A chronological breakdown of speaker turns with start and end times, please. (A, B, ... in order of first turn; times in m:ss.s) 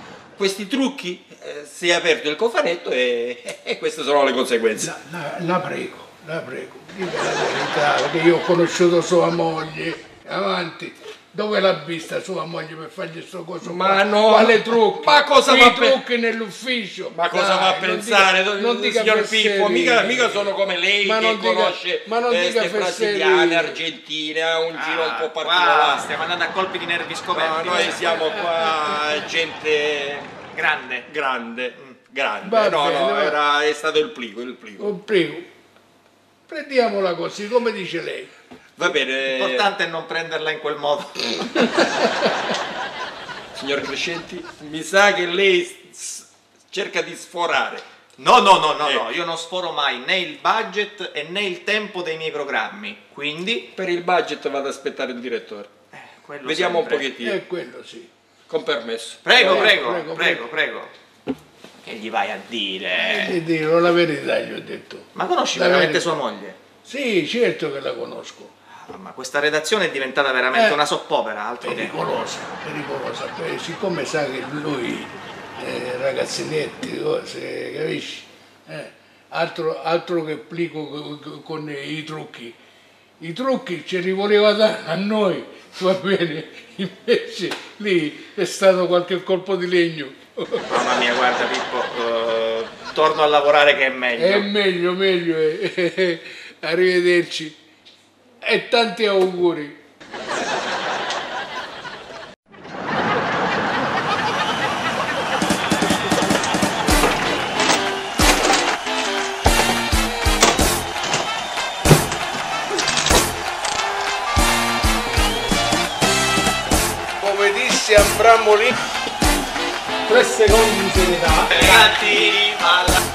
0:00.4-0:04.9 A
0:04.8-0:20.5 B
0:13.6-0:16.0 A
0:17.1-0:26.1 A
0:21.0-0:23.8 B
0:24.7-0:28.2 C
0:27.3-0:30.4 A
0:27.7-0:29.1 B
0:30.5-0:31.1 C
0:31.1-0:35.0 A
0:31.7-0:32.0 C
0:32.4-0:33.4 B
0:34.8-0:35.5 B
0:36.5-0:38.3 B
0:38.8-0:39.7 A
0:39.2-0:41.7 C
0:43.5-0:47.9 A
0:48.2-0:53.7 C
0:53.7-0:55.7 A
0:55.9-0:57.1 C
0:56.4-0:57.4 A
0:57.2-0:58.1 B
0:58.5-0:59.7 A
0:59.2-1:00.9 C
0:59.4-1:00.5 B
1:01.8-1:03.4 C
1:03.0-1:06.0 B
1:05.2-1:06.6 C
1:06.8-1:08.5 B
1:08.8-1:12.0 C
1:10.5-1:10.8 B
1:11.6-1:22.6 B
1:23.2-1:30.7 B
1:30.7-1:34.5 C
1:34.2-1:37.6 B
1:38.4-1:39.8 B
1:57.2-1:58.7 B
2:00.1-2:02.5 A
2:01.5-2:03.0 C